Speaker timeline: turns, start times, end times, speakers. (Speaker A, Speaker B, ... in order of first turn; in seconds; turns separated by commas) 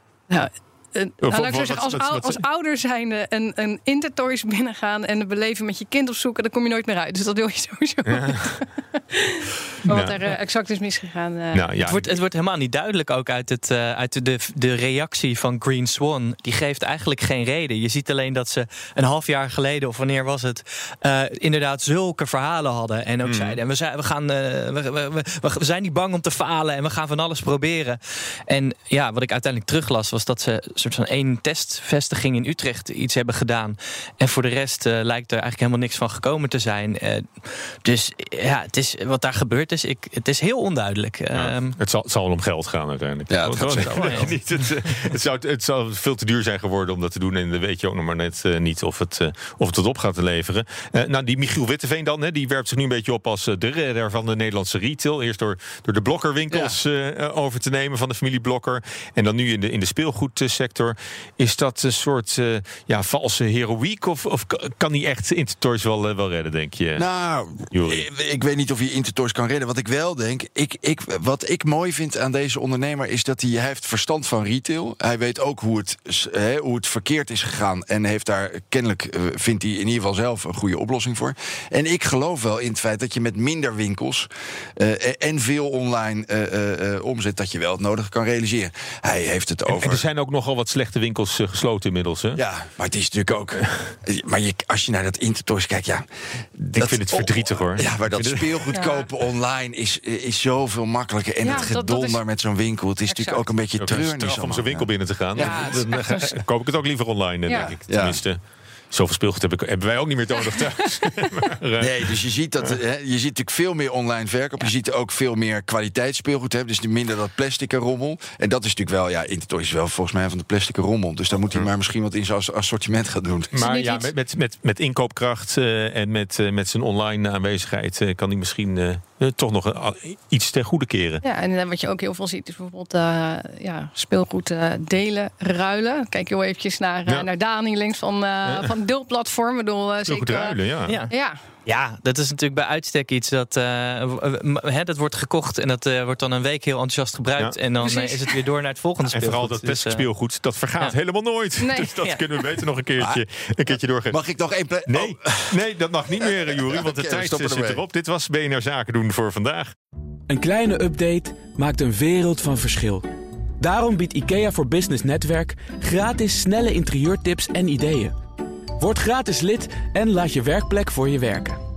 Speaker A: 0.3-11.7, Speaker B: 1.2-2.4, Speaker B: 8.1-8.6, Speaker B: 9.9-10.3, Speaker B: 11.5-12.1, Speaker C: 11.8-41.8, Speaker B: 23.2-23.6, Speaker B: 41.4-67.0, Speaker D: 43.3-44.4, Speaker C: 44.0-44.4, Speaker D: 56.5-56.8, Speaker D: 67.0-90.0, Speaker B: 67.7-68.1, Speaker B: 89.7-92.4, Speaker D: 92.3-96.0, Speaker D: 96.6-106.2, Speaker B: 96.8-98.6, Speaker A: 98.7-99.1, Speaker A: 101.4-102.2, Speaker A: 103.1-103.5, Speaker B: 103.8-108.4, Speaker A: 105.4-106.1, Speaker A: 107.5-107.7, Speaker D: 107.6-108.2, Speaker B: 108.9-112.1, Speaker A: 110.4-110.7, Speaker D: 111.8-123.5, Speaker B: 123.5-131.2, Speaker A: 123.6-124.1, Speaker A: 131.2-140.6, Speaker B: 138.5-138.7, Speaker B: 140.1-141.0, Speaker A: 141.1-141.4, Speaker C: 141.7-150.1, Speaker A: 147.8-148.3, Speaker B: 149.1-154.2, Speaker A: 151.6-151.9, Speaker C: 152.0-152.2, Speaker D: 154.1-155.6, Speaker B: 154.9-159.7, Speaker D: 156.2-157.8, Speaker E: 160.3-163.1, Speaker E: 163.6-168.2, Speaker E: 168.8-171.6